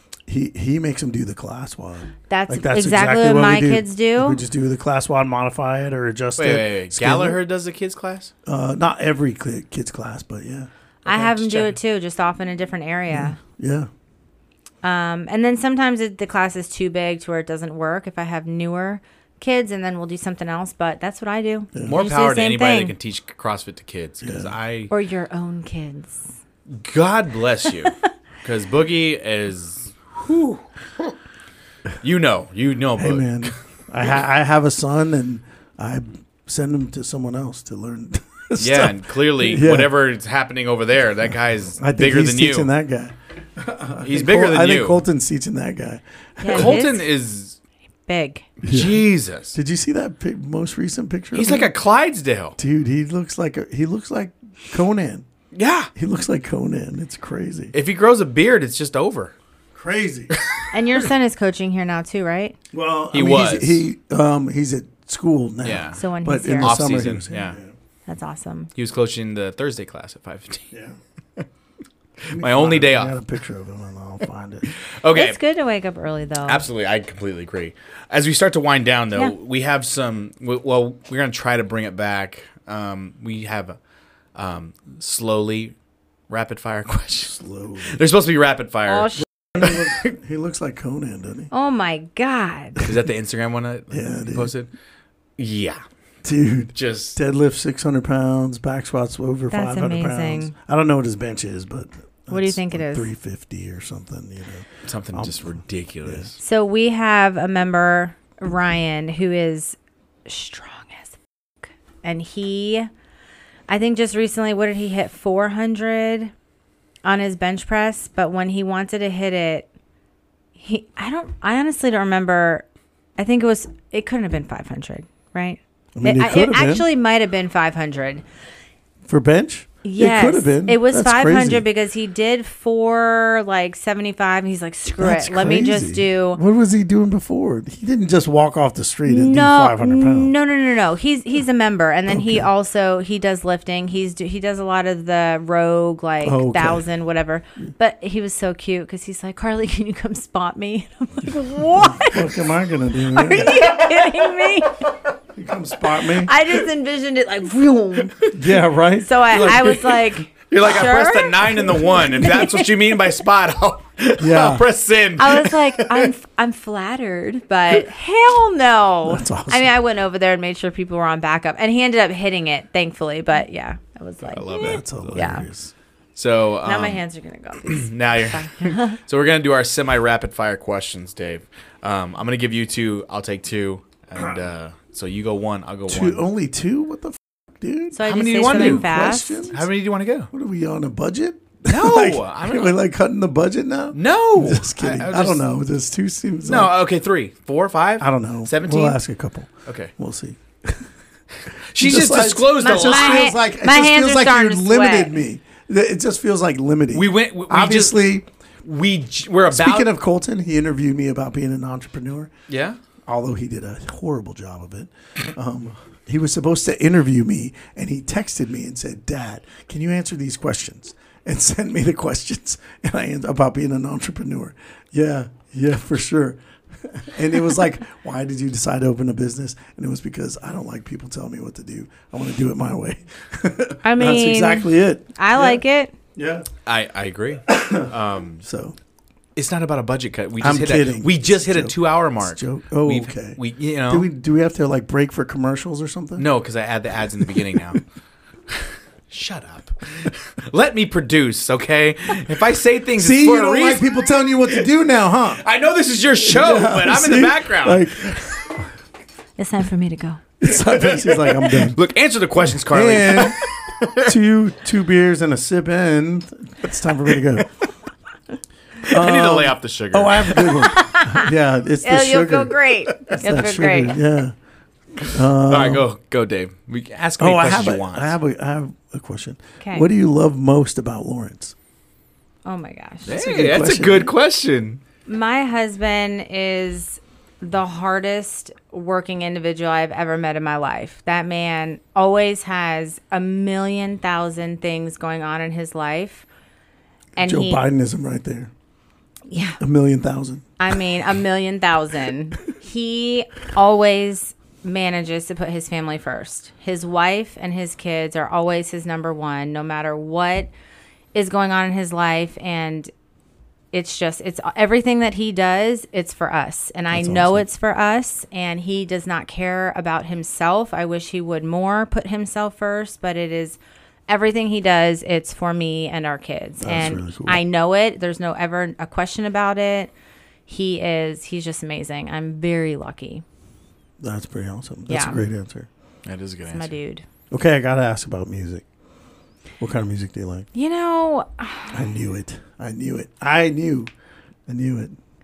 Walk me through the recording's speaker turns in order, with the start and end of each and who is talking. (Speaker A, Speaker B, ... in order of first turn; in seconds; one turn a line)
Speaker A: 0.3-7.4
Speaker B: 2.3-4.4
Speaker C: 6.4-8.3
Speaker A: 8.4-11.7
Speaker B: 11.0-13.4
Speaker A: 13.1-13.9
Speaker B: 14.8-22.9
Speaker C: 21.9-24.9
Speaker A: 24.2-24.5
Speaker B: 24.9-26.2
Speaker C: 26.7-31.1
Speaker C: 32.0-33.5
Speaker A: 33.0-39.9
Speaker C: 38.6-42.7
Speaker A: 41.8-46.9
Speaker C: 44.0-45.0
Speaker B: 46.4-47.1
Speaker C: 46.5-47.6
Speaker B: 48.1-48.5
Speaker A: 48.6-49.0
Speaker C: 48.6-49.5
Speaker A: 49.5-51.7
Speaker C: 51.3-52.6
Speaker A: 52.6-55.2
Speaker C: 55.5-55.9
Speaker A: 55.9-57.7
Speaker C: 57.7-59.3
Speaker A: 59.7-60.3
Speaker C: 60.3-60.7
Speaker B: 60.7-62.5
Speaker A: 62.7-67.7
Speaker C: 63.1-63.8
Speaker C: 65.6-66.0
Speaker B: 66.0-66.8
Speaker C: 66.6-67.6
Speaker B: 68.1-68.7
Speaker C: 68.7-70.7
Speaker C: 72.2-73.2
Speaker A: 72.3-74.7
Speaker C: 74.8-75.4
Speaker B: 75.1-76.6
Speaker C: 76.5-83.8
Speaker C: 84.3-85.7
Speaker C: 86.3-90.1
Speaker A: 87.2-88.0
Speaker B: 88.9-89.2
Speaker A: 89.4-91.5
Speaker B: 91.5-92.8
Speaker C: 92.8-94.7
Speaker A: 93.9-94.5
Speaker C: 95.4-95.8
Speaker A: 96.2-106.3
Speaker C: 96.7-97.2
Speaker B: 99.5-100.5
Speaker B: 102.3-103.1
Speaker C: 104.8-106.4
Speaker B: 106.4-112.9
Speaker B: 113.7-116.3
Speaker B: 117.0-119.7
Speaker B: 120.6-122.6
Speaker B: 123.2-128.2
Speaker A: 126.0-126.8
Speaker A: 129.1-131.6
Speaker B: 129.8-136.4
Speaker A: 135.0-140.3
Speaker B: 139.1-155.0
Speaker A: 142.1-142.4
Speaker A: 146.2-146.8
Speaker A: 151.7-153.8
Speaker A: 155.3-156.3
Speaker B: 156.0-158.3
Speaker A: 158.3-159.8
Speaker B: 159.0-162.7
Speaker C: 159.3-166.1
Speaker A: 164.2-164.7
Speaker B: 165.2-175.4
Speaker A: 169.0-169.7
Speaker C: 174.3-175.3
Speaker A: 174.5-175.7
Speaker C: 176.2-177.0
Speaker B: 176.6-179.0
Speaker C: 177.6-186.2
Speaker A: 185.9-189.7
Speaker B: 187.9-189.5
Speaker C: 188.1-188.9
Speaker C: 189.5-190.3
Speaker A: 190.3-196.7
Speaker C: 191.7-192.8
Speaker C: 193.9-195.4
Speaker C: 196.4-199.0
Speaker A: 198.0-200.9
Speaker C: 199.7-199.9
Speaker C: 201.7-203.3
Speaker A: 201.8-208.3
Speaker B: 202.6-205.1
Speaker C: 206.9-208.1
Speaker C: 208.6-209.9
Speaker A: 209.5-212.3
Speaker C: 212.5-212.8
Speaker A: 213.1-235.6
Speaker B: 233.8-235.9
Speaker A: 236.2-236.5
Speaker C: 236.7-238.4
Speaker A: 237.5-237.9
Speaker A: 238.4-238.8
Speaker C: 239.3-244.1
Speaker A: 240.4-246.3
Speaker C: 246.2-247.8
Speaker A: 247.2-247.8
Speaker C: 248.5-253.9
Speaker A: 253.0-255.4
Speaker C: 255.4-258.5
Speaker A: 256.2-258.7
Speaker B: 259.4-260.2
Speaker A: 260.4-261.8
Speaker C: 260.6-264.1
Speaker A: 262.6-263.4
Speaker A: 264.0-267.5
Speaker C: 268.8-270.8
Speaker A: 268.9-272.6
Speaker B: 270.6-271.3
Speaker B: 271.8-274.0
Speaker A: 273.1-274.3
Speaker C: 275.0-278.1
Speaker A: 275.0-275.8
Speaker A: 277.2-281.5
Speaker B: 279.6-279.9
Speaker B: 282.4-283.1
Speaker C: 283.1-284.8
Speaker A: 283.1-284.1
Speaker B: 285.1-296.3
Speaker B: 297.2-297.6
Speaker A: 297.2-298.5
Speaker B: 299.3-299.6
Speaker A: 299.6-300.5
Speaker B: 300.6-310.5
Speaker B: 311.1-312.9
Speaker B: 313.7-329.9
Speaker A: 316.9-317.4
Speaker A: 326.6-327.4
Speaker B: 330.5-333.2
Speaker A: 334.0-335.7
Speaker B: 334.9-335.2
Speaker C: 336.0-336.7
Speaker B: 336.5-337.0
Speaker A: 337.3-338.6
Speaker A: 339.6-340.5
Speaker B: 340.5-341.9
Speaker A: 341.7-343.9
Speaker A: 344.5-344.9